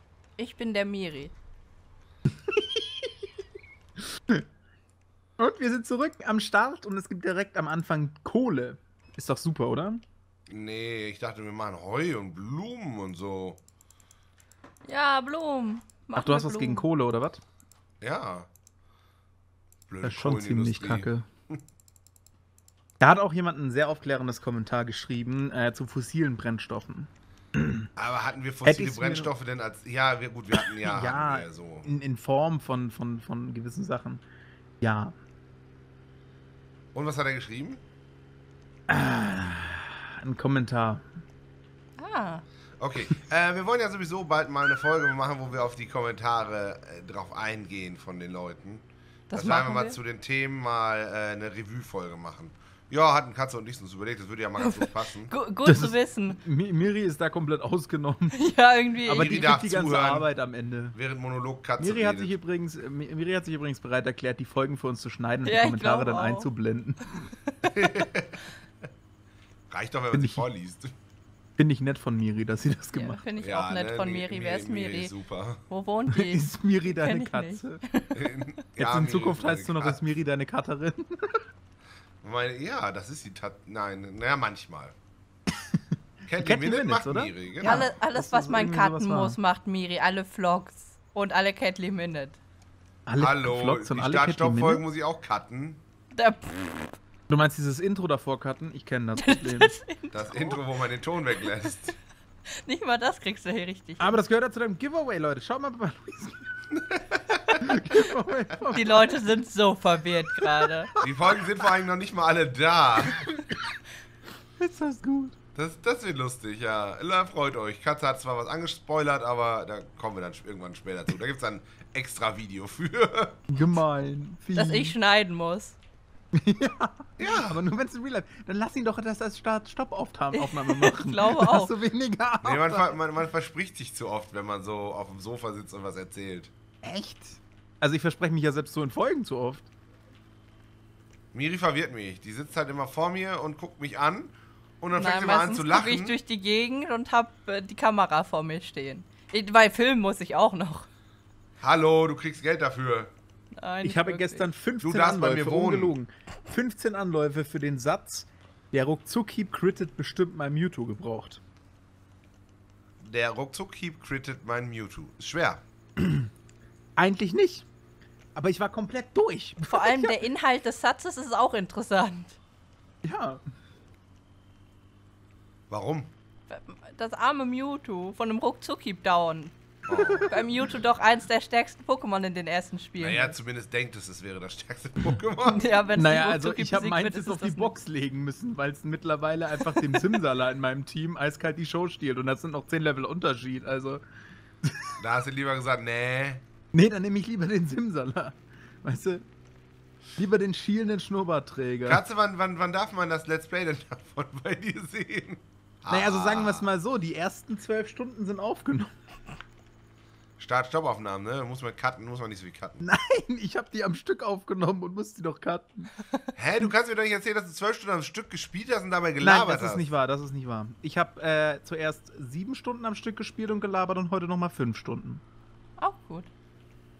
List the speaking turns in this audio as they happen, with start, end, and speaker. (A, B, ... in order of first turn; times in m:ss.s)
0:00.4-0:01.3 A
0:02.5-0:03.1 B
0:05.4-0:10.0 B
0:10.5-0:13.6 C
0:14.8-0:16.8 A
0:16.2-0:17.4 B
0:18.0-0:18.5 C
0:19.9-0:21.6 C
0:20.0-0:21.3 B
0:23.0-0:27.9 B
0:28.0-0:31.9 C
0:28.6-0:29.3 B
0:30.8-0:34.2 B
0:34.8-0:35.1 B
0:36.9-0:37.8 C
0:38.9-0:41.0 B
0:42.0-0:42.4 A
0:42.8-0:55.3 C
0:49.3-0:50.0 A
0:54.6-0:56.4 A
0:55.6-0:58.4 B
0:58.3-0:59.3 A
0:59.0-1:00.9 B
0:59.1-1:00.3 C
1:00.9-1:02.4 C
1:01.8-1:07.3 B
1:05.4-1:06.5 A
1:07.7-1:08.3 C
1:09.7-1:10.9 C
1:10.1-1:10.4 B
1:11.6-1:13.2 B
1:12.9-1:15.1 A
1:13.4-1:15.6 C
1:15.7-1:18.2 A
1:16.1-1:17.8 B
1:18.1-1:20.0 C
1:18.8-1:21.4 B
1:22.2-1:24.9 C
1:25.5-1:25.8 B
1:26.3-1:27.9 C
1:26.3-1:29.4 B
1:27.6-1:32.4 A
1:33.0-1:34.8 B
1:33.2-1:35.8 C
1:36.1-1:36.9 A
1:37.3-1:39.8 B
1:39.2-1:40.6 A
1:40.1-1:41.9 C
1:42.6-1:44.2 A
1:44.0-1:46.5 B
1:46.7-1:47.8 C
1:47.6-1:49.2 B
1:48.7-1:50.9 A
1:50.4-1:50.6 B
1:51.0-1:53.4 C
1:54.6-1:55.4 B
1:55.5-2:03.4 C
2:03.5-2:05.0 B
2:04.5-2:05.8 A
2:06.3-2:12.9 B
2:07.2-2:07.6 C
2:10.3-2:11.7 A
2:12.4-2:16.5 C
2:16.8-2:19.7 B
2:21.3-2:26.2 C
2:24.9-2:30.9 A
2:31.6-2:33.1 C
2:33.6-2:34.5 A
2:33.8-2:41.4 B
2:34.8-2:35.9 C
2:43.0-2:45.6 C
2:46.0-2:46.2 B
2:47.0-2:47.6 B
2:48.3-2:50.1 B
2:49.6-2:52.4 A
2:53.0-2:53.4 B
2:55.7-2:56.1 C
2:56.5-2:59.5 A
2:59.9-3:00.4 C
2:59.9-3:00.3 B
3:00.3-3:03.4 A
3:03.0-3:05.7 C
3:05.4-3:07.7 A
3:05.9-3:14.0 B
3:14.6-3:14.9 B
3:15.0-3:16.4 C
3:16.7-3:19.2 B
3:20.2-3:22.0 B
3:21.9-3:26.7 C
3:25.9-3:28.9 B
3:30.4-3:32.8 C
3:32.8-3:35.9 B
3:36.4-3:39.9 C
3:39.2-3:45.2 B
3:45.8-3:46.3 A